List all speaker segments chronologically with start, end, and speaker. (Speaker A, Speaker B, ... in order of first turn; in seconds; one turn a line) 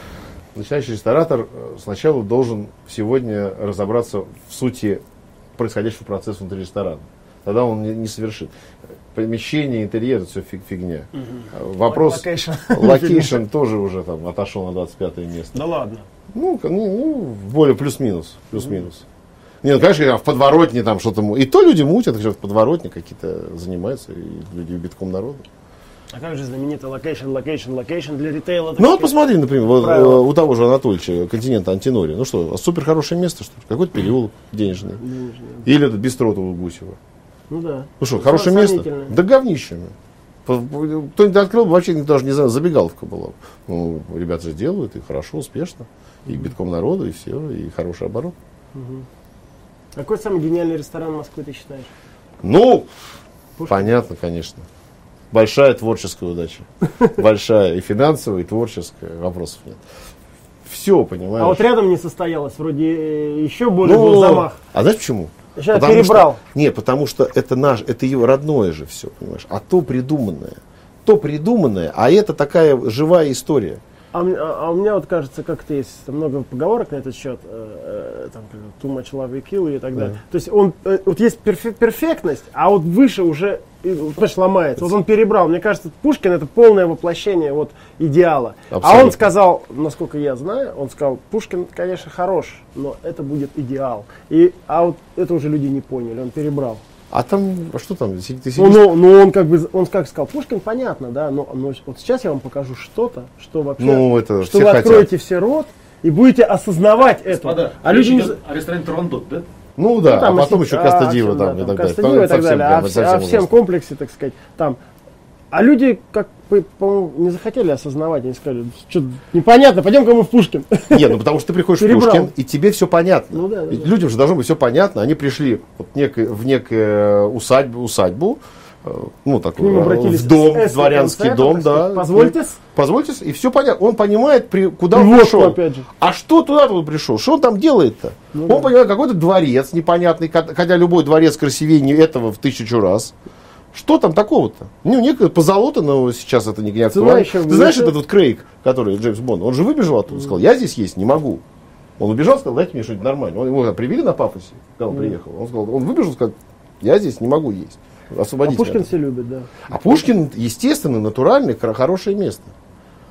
Speaker A: 0.5-5.0
Speaker A: 5.5-8.5
Speaker A: 9.1-15.6
Speaker B: 11.2-13.4
Speaker B: 15.5-16.1
Speaker A: 16.3-19.0
Speaker A: 19.6-25.4
Speaker B: 26.1-30.3
Speaker A: 28.8-35.0
Speaker B: 35.0-35.6
Speaker A: 35.6-37.0
Speaker B: 37.5-39.1
Speaker A: 38.0-39.9
Speaker A: 40.5-48.3
Speaker B: 48.7-49.0
Speaker B: 49.9-51.9
Speaker A: 52.4-52.9
Speaker B: 53.6-53.9
Speaker A: 53.7-54.6
Speaker A: 55.3-59.8
Speaker A: 60.6-61.6
Speaker B: 61.4-64.6
Speaker A: 63.8-73.8
Speaker B: 65.5-66.4
Speaker B: 74.1-96.8
Speaker A: 88.7-89.2
Speaker A: 97.1-98.9
Speaker B: 98.5-108.4
Speaker A: 103.8-105.1
Speaker C: 107.0-109.5
Speaker A: 109.8-113.5
Speaker B: 110.0-114.8
Speaker B: 115.5-121.2
Speaker A: 120.9-143.1
Speaker B: 121.8-122.3
Speaker B: 123.3-123.9
Speaker B: 129.6-132.6
Speaker B: 134.9-135.9
Speaker B: 138.3-138.7
Speaker A: 143.7-151.4
Speaker B: 146.9-147.9
Speaker A: 152.0-158.9
Speaker B: 158.4-159.9
Speaker A: 159.7-162.5